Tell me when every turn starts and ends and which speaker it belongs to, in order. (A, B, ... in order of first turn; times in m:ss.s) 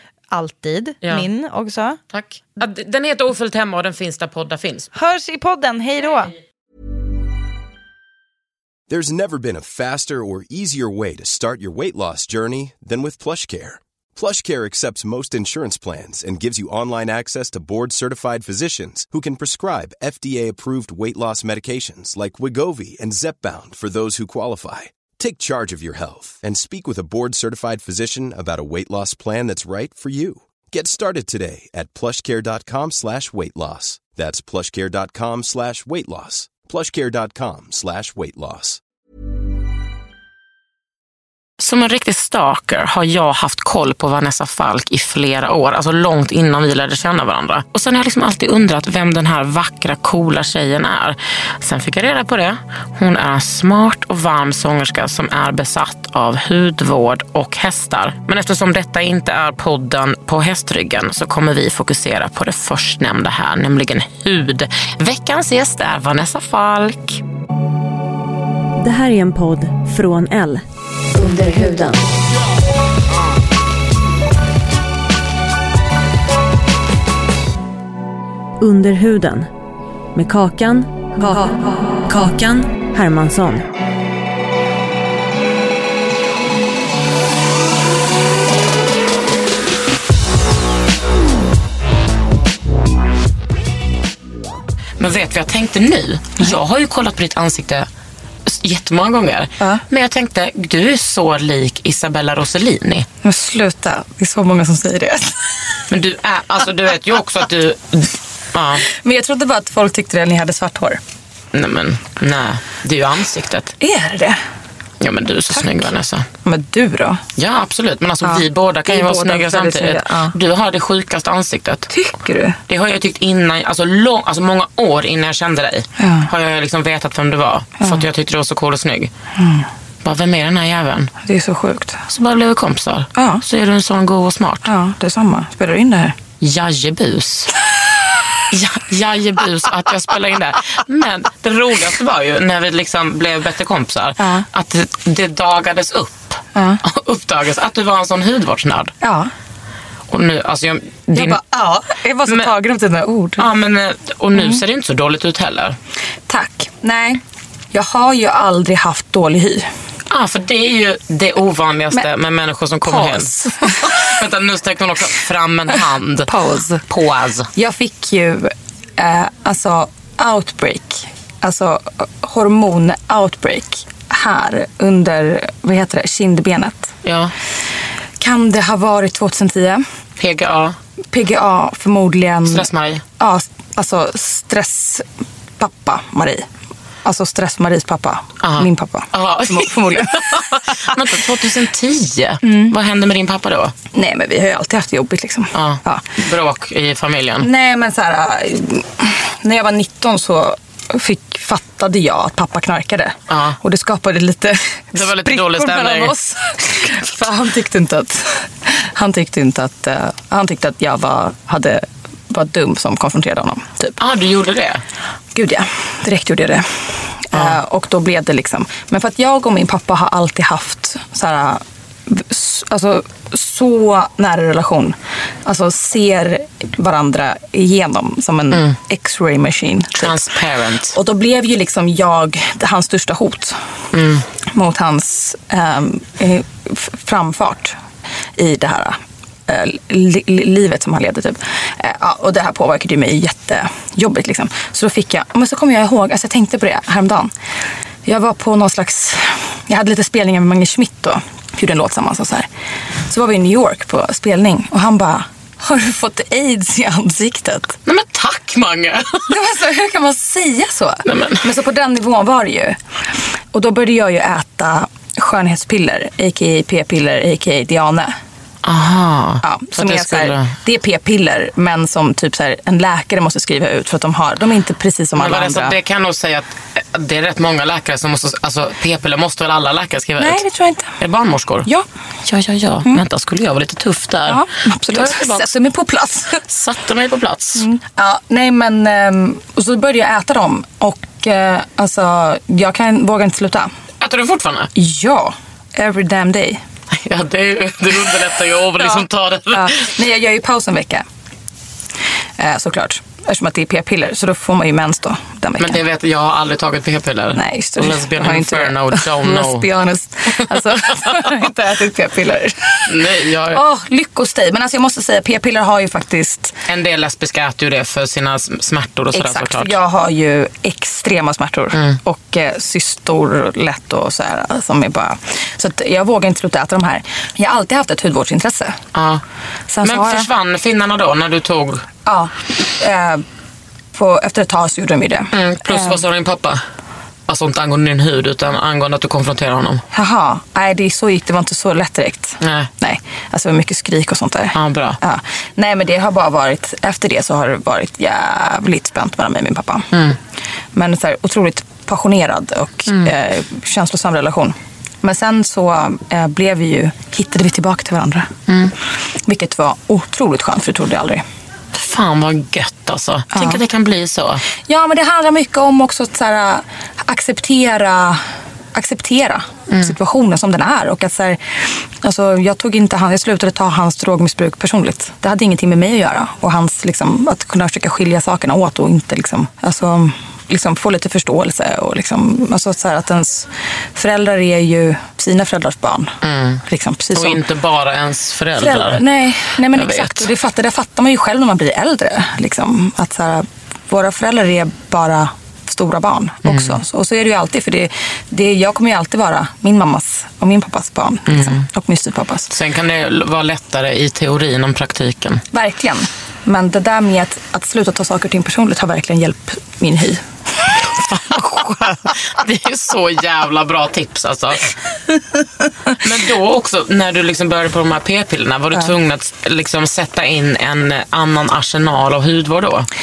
0:00.3-0:02.0 A
0:02.1-0:04.9 B
0:04.9-0:06.3 A
0:08.9-0:38.8 C
0:41.6-1:07.2 B
1:08.8-1:10.6 D
1:11.1-1:12.0 D
1:18.6-1:19.5 D
1:20.1-1:23.7 D
1:35.0-1:37.9 B
1:38.4-1:43.1 B
1:43.2-1:45.4 E
1:45.9-1:48.8 B
1:48.9-1:51.0 E
1:51.5-1:53.7 B
1:53.8-1:54.4 E
1:55.0-1:56.2 B
1:56.4-1:57.2 E
1:57.4-2:01.9 B
1:58.2-2:00.4 E
2:01.9-2:02.6 E
2:02.7-2:09.1 B
2:06.0-2:06.3 E
2:07.8-2:08.0 E
2:09.4-2:09.7 E
2:10.0-2:11.1 B
2:11.2-2:12.0 E
2:12.1-2:14.7 B
2:13.2-2:13.4 E
2:14.6-2:16.2 E
2:16.4-2:17.6 B
2:18.5-2:28.9 B
2:24.2-2:24.4 E
2:26.5-2:26.8 E
2:29.0-2:29.3 E
2:30.1-2:31.4 B
2:31.1-2:33.4 E
2:33.4-2:35.8 B
2:34.3-2:34.6 E
2:36.3-2:37.2 E
2:37.7-2:39.7 E
2:40.1-2:46.3 B
2:42.8-2:44.1 E
2:46.3-2:46.8 E
2:46.9-2:47.5 B
2:47.6-2:56.9 E
2:57.0-2:57.3 B
2:58.2-2:59.8 E
3:00.2-3:00.8 B
3:01.1-3:02.7 E
3:02.5-3:03.0 B
3:03.2-3:05.1 E
3:05.6-3:06.4 E
3:07.0-3:10.9 E
3:08.4-3:13.7 B
3:12.4-3:12.7 E
3:13.9-3:16.1 E
3:15.5-3:17.5 B
3:17.4-3:34.0 E
3:23.3-3:23.6 B
3:24.9-3:26.1 B
3:34.0-3:34.8 B
3:35.3-3:50.2 E
3:49.9-3:51.0 B
3:50.9-3:53.6 E
3:53.9-3:54.2 B
3:54.4-3:57.8 E
3:58.4-4:07.3 E
4:08.0-4:12.5 E
4:13.1-4:17.8 E
4:17.8-4:19.3 B
4:19.3-4:22.8 E
4:21.0-4:21.5 B
4:23.5-4:28.1 E
4:28.6-4:30.5 B
4:29.4-4:35.8 E
4:35.2-4:40.4 B
4:40.2-4:41.0 E
4:41.0-4:41.7 B
4:42.3-4:45.5 B
4:44.2-4:46.4 E
4:46.5-4:47.7 B
4:47.6-4:53.7 E
4:54.0-4:54.7 B
4:54.7-4:56.6 E
4:56.9-4:59.9 B
4:58.8-5:01.0 E
5:02.4-5:05.8 E
5:05.6-5:09.7 B
5:07.3-5:16.6 E
5:10.5-5:11.3 B
5:12.9-5:13.6 B
5:16.7-5:19.7 B
5:19.1-5:28.8 E
5:21.7-5:22.0 B
5:28.9-5:29.2 B
5:29.7-5:30.3 E
5:29.8-5:31.8 B
5:32.0-5:33.2 E
5:33.9-5:36.0 E
5:35.3-5:36.6 B
5:37.3-5:39.8 B
5:39.9-5:49.9 E
5:42.4-5:42.7 B
5:44.5-5:45.0 B
5:50.7-5:58.3 E
5:58.5-5:58.7 B
5:59.2-6:01.2 E
6:01.7-6:04.4 B
6:03.3-6:03.6 E
6:04.6-6:08.2 E
6:08.7-6:27.4 E
6:26.2-6:26.6 B
6:27.1-6:29.0 B
6:28.6-6:42.5 E
6:29.7-6:30.3 B
6:36.5-6:36.8 B
6:41.3-6:41.6 B
6:42.5-6:45.4 B
6:45.5-6:50.7 E
6:50.8-6:54.8 B
6:55.9-7:02.9 B